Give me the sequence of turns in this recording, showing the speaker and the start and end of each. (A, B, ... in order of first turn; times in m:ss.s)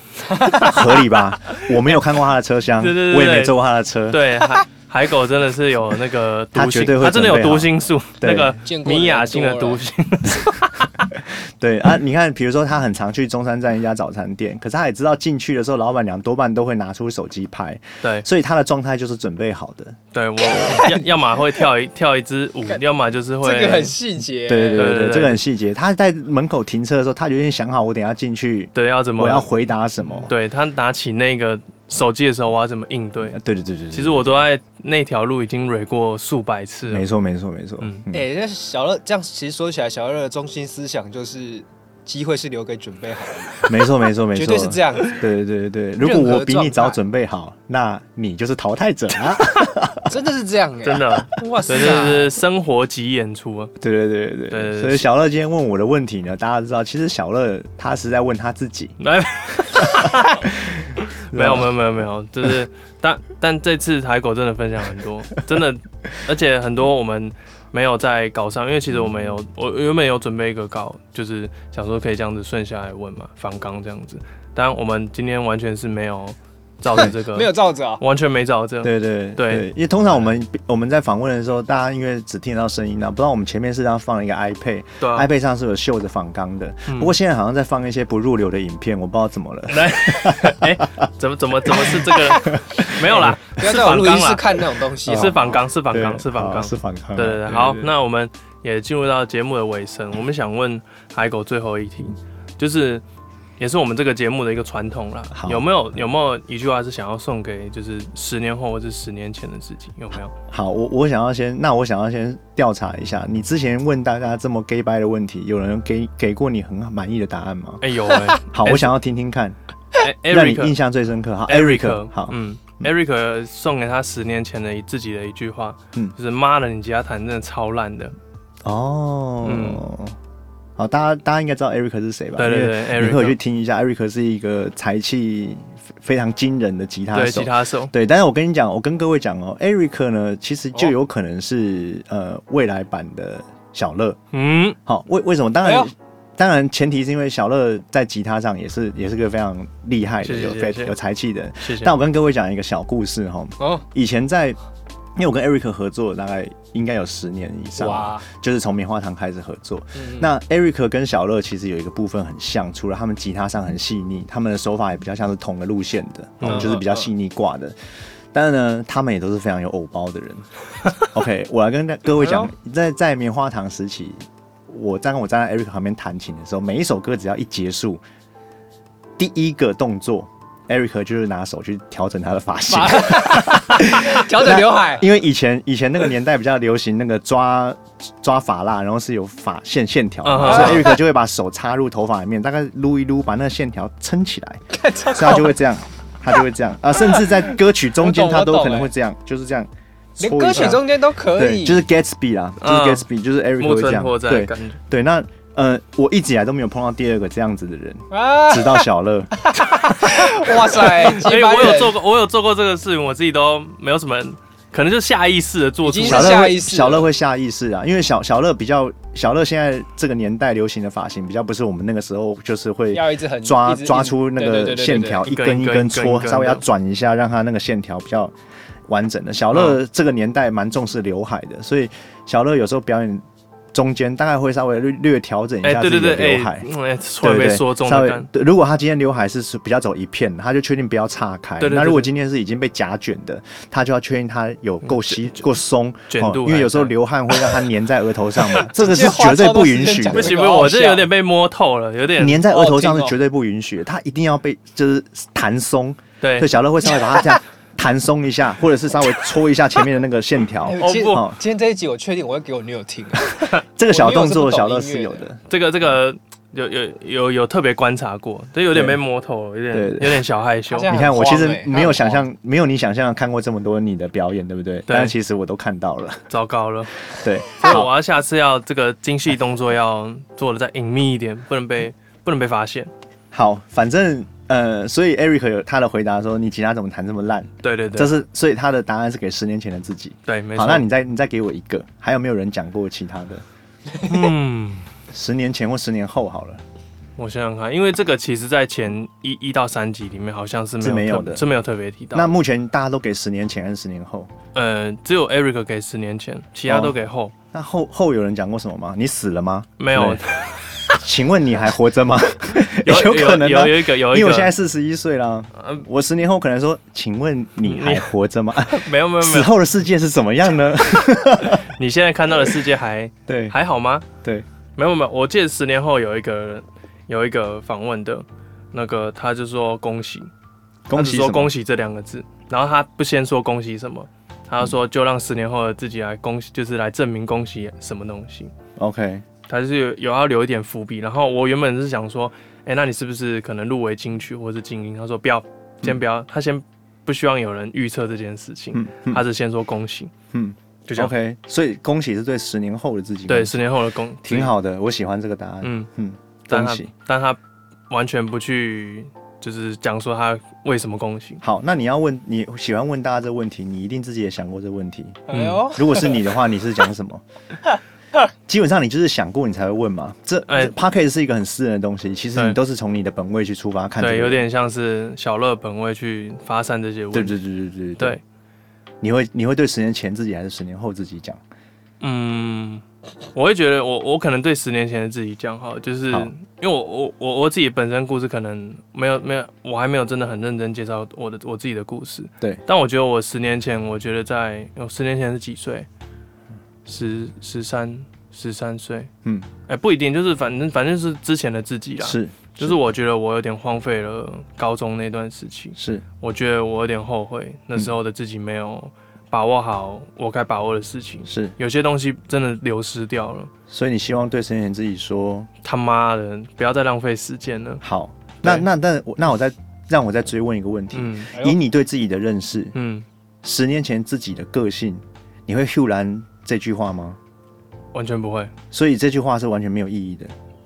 0:00.3-0:00.8 A
0:00.4-0:00.8 B
0:00.4-0:04.4 C
0:02.8-0:03.6 A
0:04.1-0:11.0 A
0:06.5-0:08.6 C
0:08.6-0:09.8 B
0:11.1-0:20.0 C
0:20.1-0:23.9 A
0:20.5-0:20.8 C
0:20.6-0:21.0 B
0:23.4-0:25.1 B
0:24.5-0:30.3 C
0:24.7-0:25.4 A
0:28.7-0:29.5 A
0:30.2-0:33.4 A
0:33.3-0:34.4 C
0:33.9-0:37.1 A
0:36.9-0:38.2 C
0:37.8-0:38.0 A
0:38.1-0:43.8 B
0:43.6-0:50.1 C
0:44.3-0:45.2 B
0:46.0-0:47.0 B
0:50.1-0:52.3 B
0:50.8-0:53.8 A
0:53.8-0:59.0 C
0:54.5-0:55.1 A
0:59.0-1:00.5 A
1:00.7-1:01.7 C
1:01.0-1:19.7 A
1:17.0-1:18.0 B
1:18.8-1:30.8 C
1:25.0-1:25.3 A
1:26.9-1:27.1 A
1:29.7-1:43.0 A
1:31.7-1:33.3 C
1:33.1-1:35.5 B
1:35.0-1:37.9 C
1:43.6-1:50.3 A
1:45.3-1:45.7 C
1:50.5-1:57.9 C
1:57.8-1:58.9 A
1:58.4-1:59.6 C
2:00.0-2:00.7 A
2:00.3-2:02.9 C
2:01.5-2:08.1 A
2:08.6-2:10.2 C
2:09.4-2:09.8 A
2:10.8-2:24.2 C
2:12.4-2:13.4 A
2:17.1-2:17.9 A
2:24.3-2:24.8 A
2:24.8-2:34.6 C
2:25.6-2:25.9 B
2:30.2-2:30.9 A
2:31.6-2:31.9 A
2:35.2-2:47.7 C
2:37.8-2:38.2 B
2:40.0-2:40.3 B
2:46.4-2:46.7 A
2:46.4-2:47.1 B
2:48.3-2:58.0 C
2:52.2-2:52.5 B
2:59.2-3:29.5 C
3:02.7-3:05.1 B
3:10.2-3:11.0 A
3:10.5-3:10.9 B
3:14.7-3:15.6 B
3:17.0-3:18.9 B
3:20.2-3:21.8 B
3:22.6-3:23.0 A
3:23.6-3:24.8 A
3:28.1-3:28.9 B
3:29.5-3:31.9 B
3:30.0-3:36.5 A
3:35.8-3:37.1 B
3:36.0-3:48.3 C
3:42.9-3:45.3 B
3:45.3-3:46.6 A
3:48.9-3:56.7 C
3:49.5-3:49.8 A
3:55.6-3:58.3 A
3:57.2-4:10.4 C
4:01.6-4:02.1 A
4:04.9-4:05.4 A
4:06.1-4:06.9 A
4:08.6-4:11.1 B
4:10.1-4:12.4 A
4:12.2-4:21.4 C
4:12.5-4:13.1 B
4:16.2-4:16.5 A
4:20.6-4:25.3 B
4:20.8-4:21.2 A
4:23.2-4:25.4 C
4:25.5-4:30.9 A
4:28.7-4:29.0 C
4:29.7-4:30.2 C
4:30.7-4:32.2 B
4:30.9-4:36.3 C
4:34.9-4:35.1 A
4:36.3-4:37.0 A
4:37.1-4:37.9 C
4:37.6-4:42.9 A
4:43.3-4:53.4 C
4:47.6-4:48.1 A
4:50.2-4:50.9 A
4:54.0-4:54.9 A
4:55.1-4:56.6 C
4:57.2-5:02.3 A
5:00.8-5:01.4 C
5:02.1-5:04.3 C
5:04.5-5:07.3 A
5:06.7-5:06.9 C
5:07.5-5:10.2 C
5:09.8-5:10.9 A
5:10.9-5:21.6 C
5:12.7-5:14.5 A
5:15.6-5:15.8 A
5:17.6-5:19.5 A
5:21.4-5:24.0 A
5:23.3-5:23.5 C
5:24.8-5:30.3 A
5:30.9-5:31.5 C
5:30.9-5:38.5 A
5:38.8-5:39.2 C
5:39.5-5:50.1 A
5:48.7-5:49.2 C
5:50.3-5:53.6 C
5:50.9-5:51.1 A
5:53.3-5:54.5 A
5:54.2-5:56.9 C
5:55.6-5:55.9 A
5:56.5-5:57.4 A
5:57.9-6:01.4 A
6:01.4-6:07.2 C
6:05.3-6:06.2 B
6:05.3-6:05.6 A
6:08.5-6:14.4 C
6:10.5-6:10.7 A
6:14.0-6:17.4 A
6:17.1-6:18.2 C
6:19.0-6:21.4 C
6:22.0-6:35.9 A
6:36.8-6:39.1 A
6:39.7-6:53.5 A
6:42.0-6:42.8 C
6:45.8-6:46.0 C
6:51.3-6:51.5 C
6:53.7-6:55.5 C
6:55.6-6:57.8 A
6:57.8-7:02.7 C
7:00.9-7:01.3 A
7:02.7-7:03.0 A
7:03.4-7:07.2 C
7:07.9-7:08.5 A
7:08.7-7:10.3 C